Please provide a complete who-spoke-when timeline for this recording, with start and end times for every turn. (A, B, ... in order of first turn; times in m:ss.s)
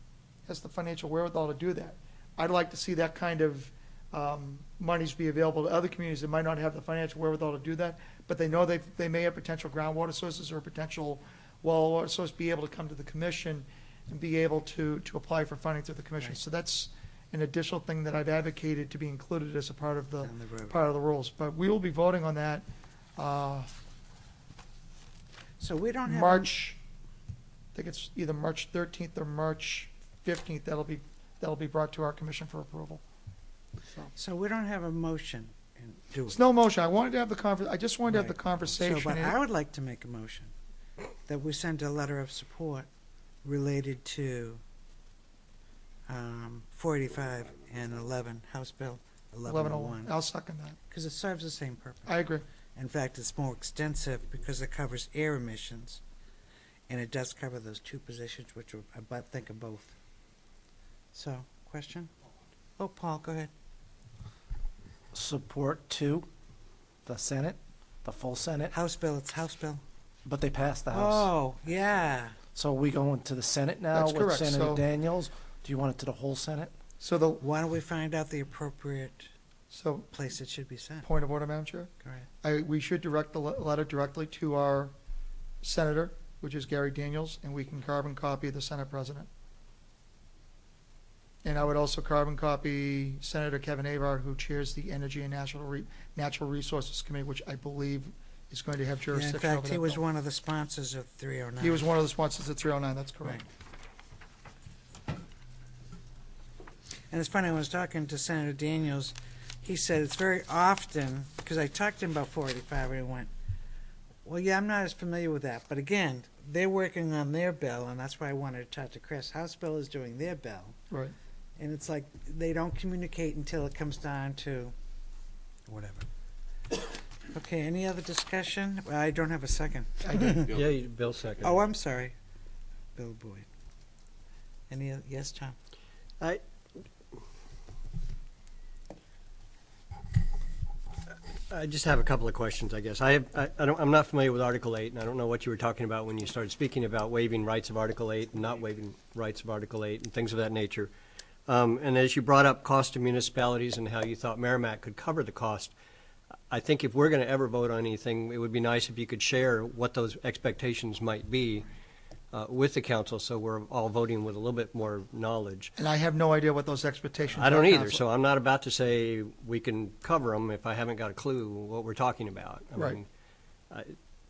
0:00.5-0:23.7 A
0:20.2-0:20.8 B
0:25.6-0:26.5 B
0:26.1-0:26.8 A
0:27.8-0:33.0 A
0:34.2-0:36.4 B
0:36.3-0:39.4 A
0:38.1-0:40.5 B
0:41.3-0:42.9 B
0:43.4-0:44.6 B
0:46.1-0:50.1 B
0:49.4-0:50.8 A
0:50.9-0:52.2 B
0:52.1-0:52.4 A
0:52.8-0:56.0 B
0:56.9-1:00.0 B
1:01.1-1:02.1 B
1:02.8-1:03.5 B
1:05.1-1:06.3 C
1:07.1-1:08.7 C
1:08.7-1:09.8 B
1:10.2-1:11.3 C
1:10.9-1:12.4 B
1:12.5-1:16.7 C
1:13.9-1:14.8 A
1:17.0-1:17.4 A
1:17.4-1:19.3 B
1:19.7-1:20.1 A
1:20.1-1:21.1 B
1:21.0-1:24.9 A
1:22.0-1:22.3 B
1:25.6-1:29.3 A
1:31.4-1:40.0 A
1:39.1-1:41.9 B
1:41.6-1:43.4 A
1:47.1-1:53.3 B
1:54.2-2:00.8 B
2:01.6-2:04.8 B
2:05.7-2:06.1 B
2:07.3-2:10.6 B
2:10.0-2:10.5 A
2:10.5-2:11.6 D
2:11.4-2:12.2 B
2:13.0-2:13.5 B
2:14.7-2:15.6 B
2:21.5-2:30.9 D
2:31.5-2:35.7 D
2:36.5-2:41.7 D
2:42.3-2:45.7 D
2:45.8-2:48.0 A
2:47.3-2:53.1 D
2:53.7-2:54.0 D